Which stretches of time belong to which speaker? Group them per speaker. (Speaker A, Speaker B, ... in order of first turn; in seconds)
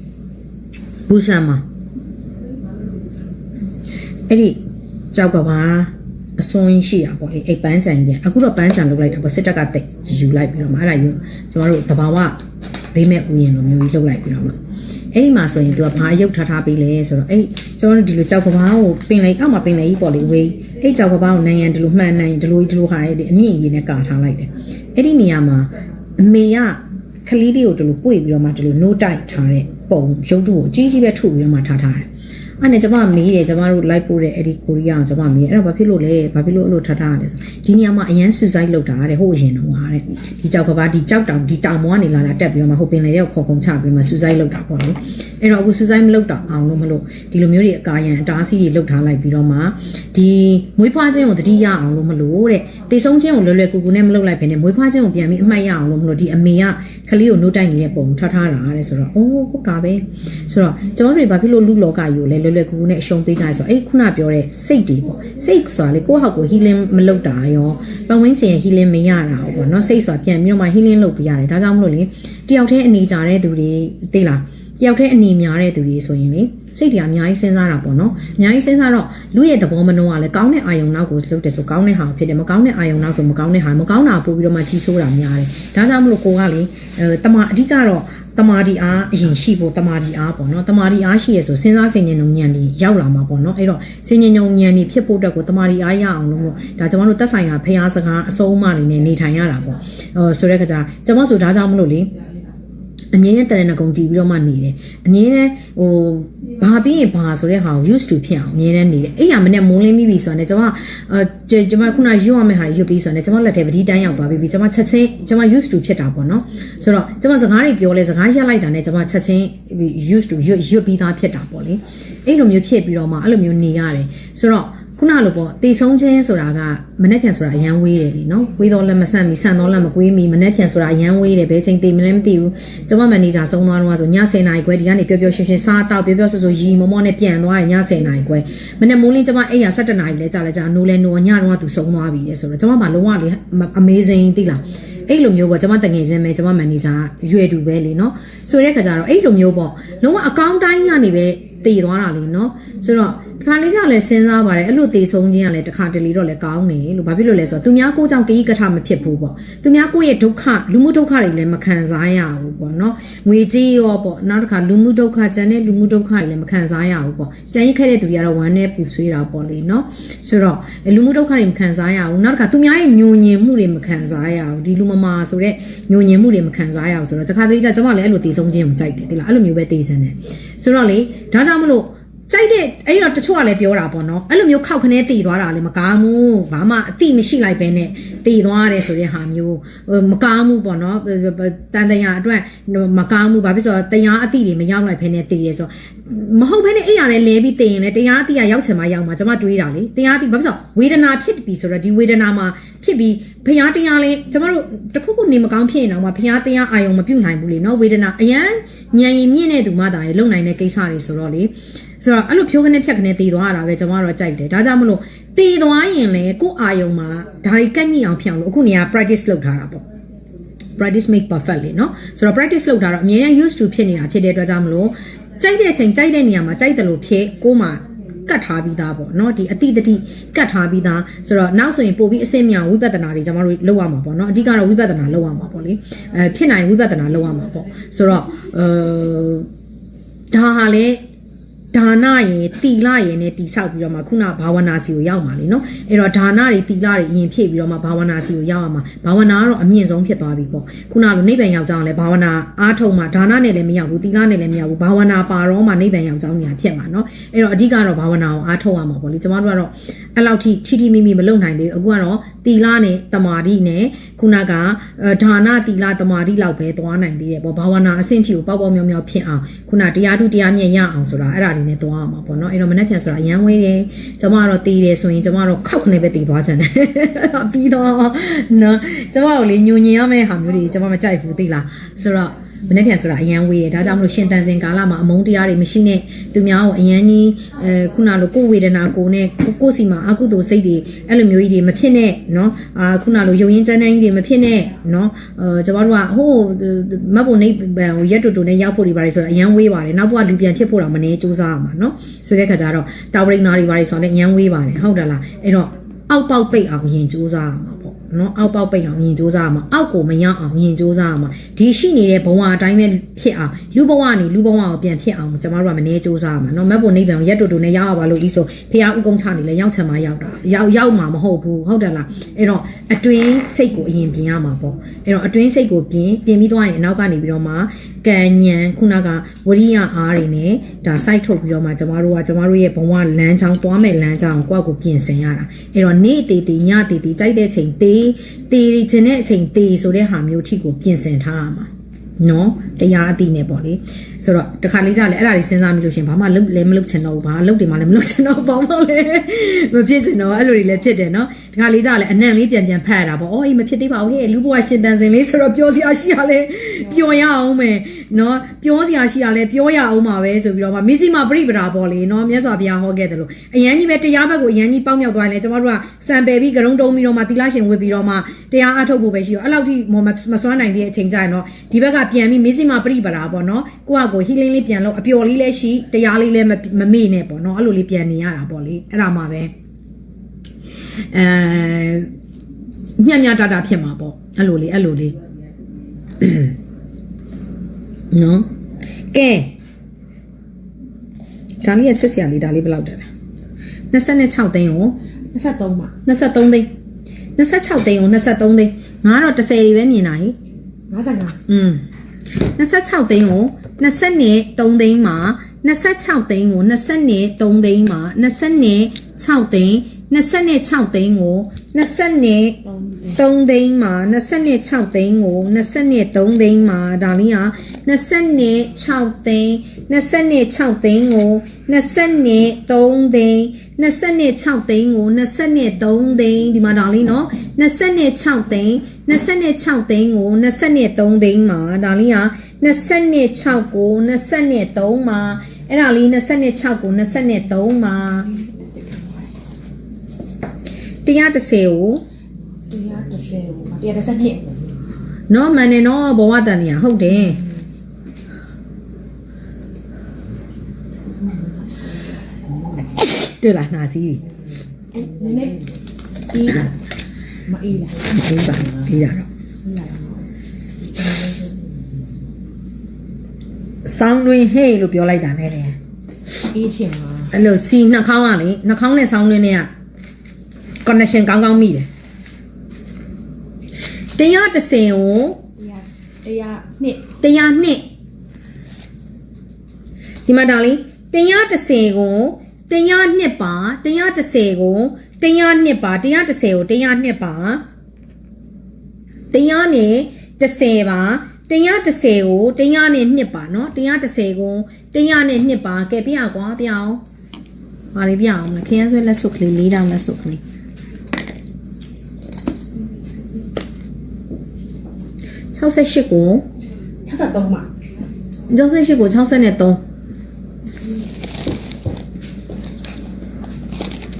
Speaker A: 1.1-1.6, 4.3-4.6, 5.1-12.4, 12.9-14.6, 15.1-32.1, 32.6-102.1, 103.1-219.8, 220.8-239.5, 240.3-241.0, 241.7-379.5, 381.1-382.1, 383.0-385.2, 386.2-386.5, 388.1-388.5, 389.1-389.5, 391.6-393.1, 393.9-395.0, 396.1-396.7, 397.4-400.4, 401.5-401.8, 402.4-412.6, 413.1-438.3, 441.1-442.0, 445.3-447.4, 452.9-454.2, 458.1-459.3, 463.9-465.8, 467.3-469.7, 470.9-471.9, 474.2-475.4, 477.2-477.9, 480.3-487.6, 489.3-497.0, 497.9-500.4, 505.5-506.5, 508.5-509.8
Speaker B: 395.3-396.0, 400.9-401.4, 412.7-413.2, 438.3-439.3, 442.7-444.6, 454.9-455.6, 456.3-456.7, 457.5-458.1, 459.6-460.2, 460.8-461.5, 466.5-467.3, 475.6-477.1, 507.1-507.7